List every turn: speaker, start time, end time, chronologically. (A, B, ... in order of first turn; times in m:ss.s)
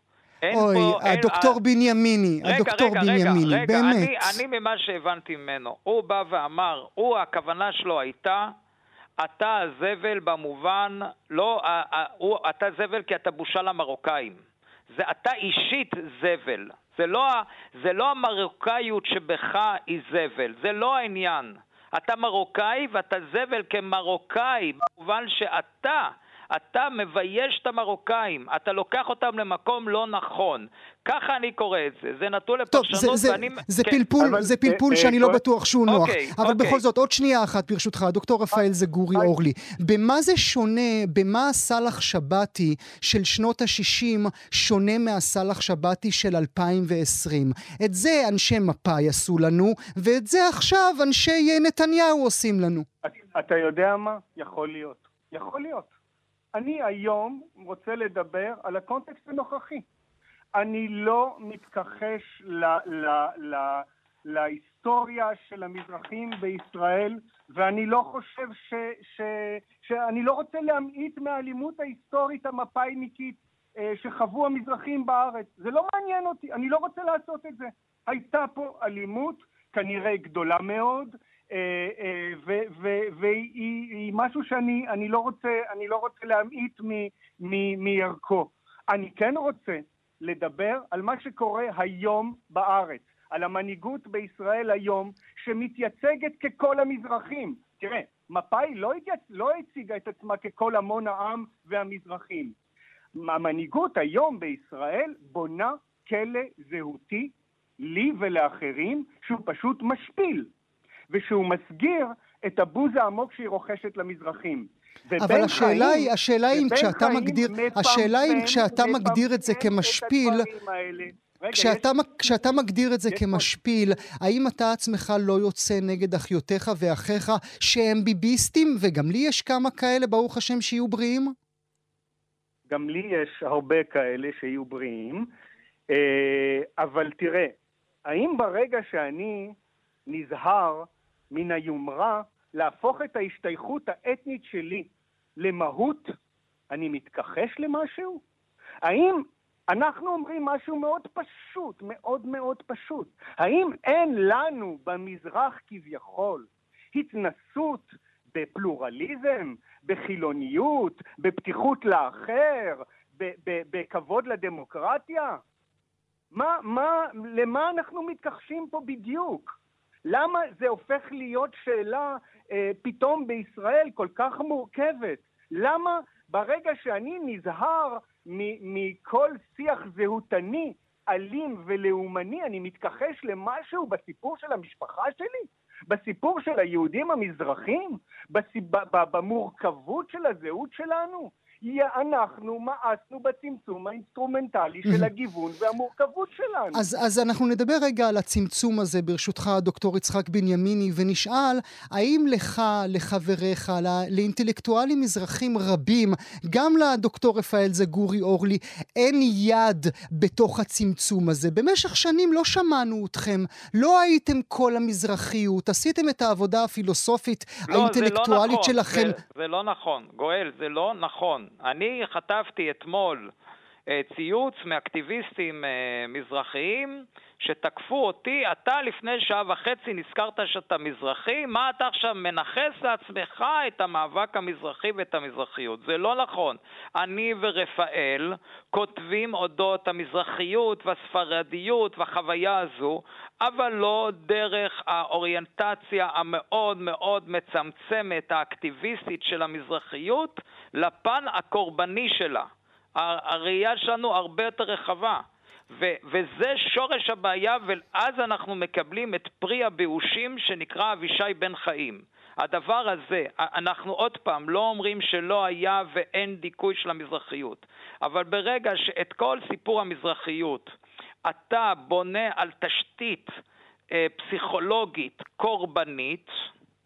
0:00.4-0:01.6 A
0:00.5-0:04.4 B
0:02.4-0:08.5 A
0:09.2-0:34.0 A
0:32.7-0:52.8 B
0:34.2-0:35.4 C
0:35.9-0:36.8 A
0:53.0-0:55.9 C
0:56.5-0:59.8 C
1:00.5-1:42.5 C
1:43.2-1:50.5 C
1:51.1-2:02.4 C
1:55.2-2:00.5 B
2:01.5-2:11.3 B
2:03.1-2:03.5 C
2:12.7-2:15.3 C
2:15.9-2:17.5 C
2:18.0-2:19.6 C
2:20.1-2:26.2 C
2:26.7-2:28.2 C
2:28.8-2:45.4 C
2:46.3-2:49.5 C
2:50.0-3:16.8 C
3:16.7-3:39.2 B
3:37.7-3:43.3 A
3:43.9-4:30.7 A
4:31.2-4:33.3 A
4:33.9-4:36.3 A